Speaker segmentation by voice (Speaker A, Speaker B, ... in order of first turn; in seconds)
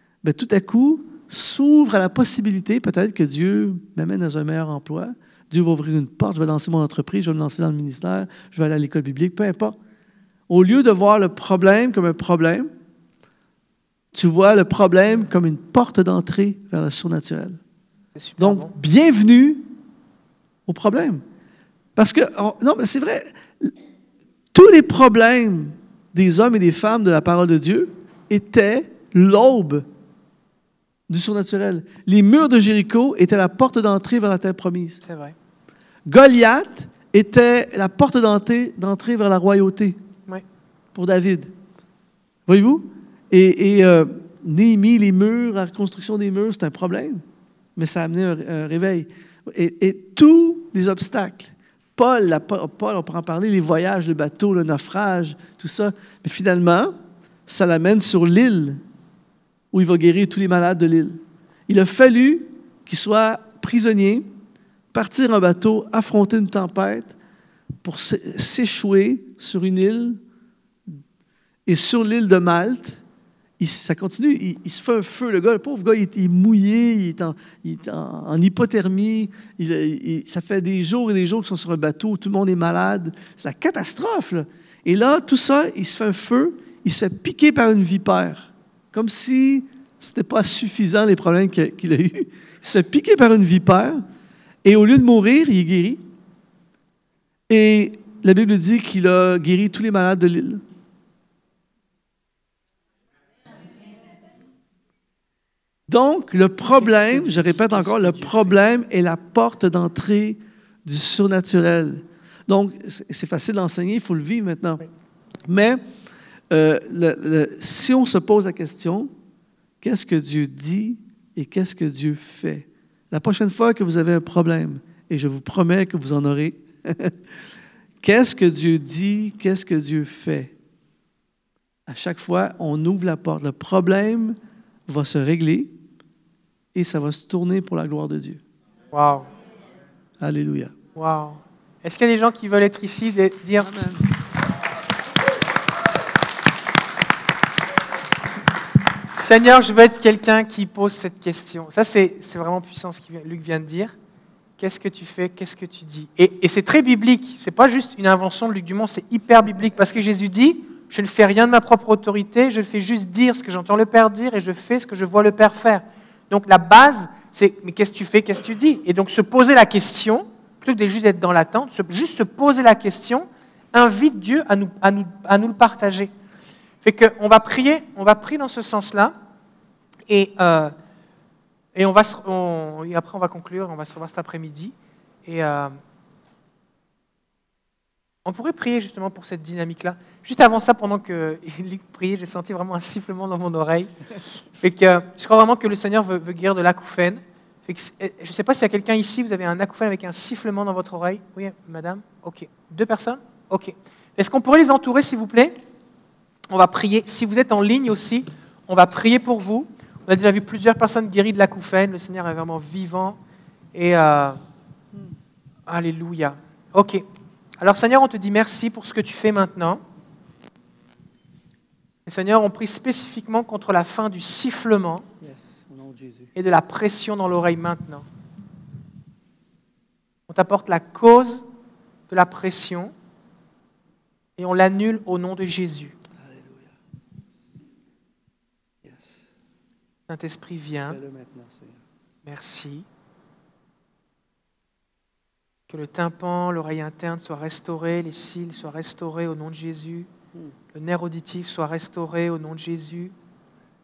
Speaker A: 0.2-9.8, 10.5-12.7, 14.1-17.6, 18.4-19.7, 20.7-21.2, 22.0-23.7, 24.5-29.9, 31.1-35.0, 36.1-40.0, 41.0-41.5, 42.5-47.2, 47.8-56.9, 57.5-58.8, 59.7-64.3, 64.9-67.2, 67.8-70.2, 71.7-73.0, 73.6-94.0, 94.7-96.0, 97.5-100.6, 105.9-114.8, 115.5-115.8, 116.5-119.1, 119.8-127.2, 128.0-130.5, 131.9-135.7, 136.7-138.4, 140.2-140.7, 143.6-144.1, 225.2-226.3, 236.1-236.8, 238.8-239.3, 240.9-241.8
Speaker B: 18.1-18.7, 35.0-35.4, 106.7-108.6, 138.9-139.3, 140.9-143.8, 149.1-154.0, 154.6-176.1, 176.8-179.1, 180.1-180.7, 181.8-185.7, 188.2-193.9, 194.6-205.6, 206.5-213.2, 213.7-214.4, 215.7-217.0, 217.6-219.8, 222.1-225.1, 226.4-228.1, 230.3-231.5, 232.1-232.9, 234.4-235.9, 240.1-241.0, 242.2-242.9, 245.7-250.1, 250.7-253.1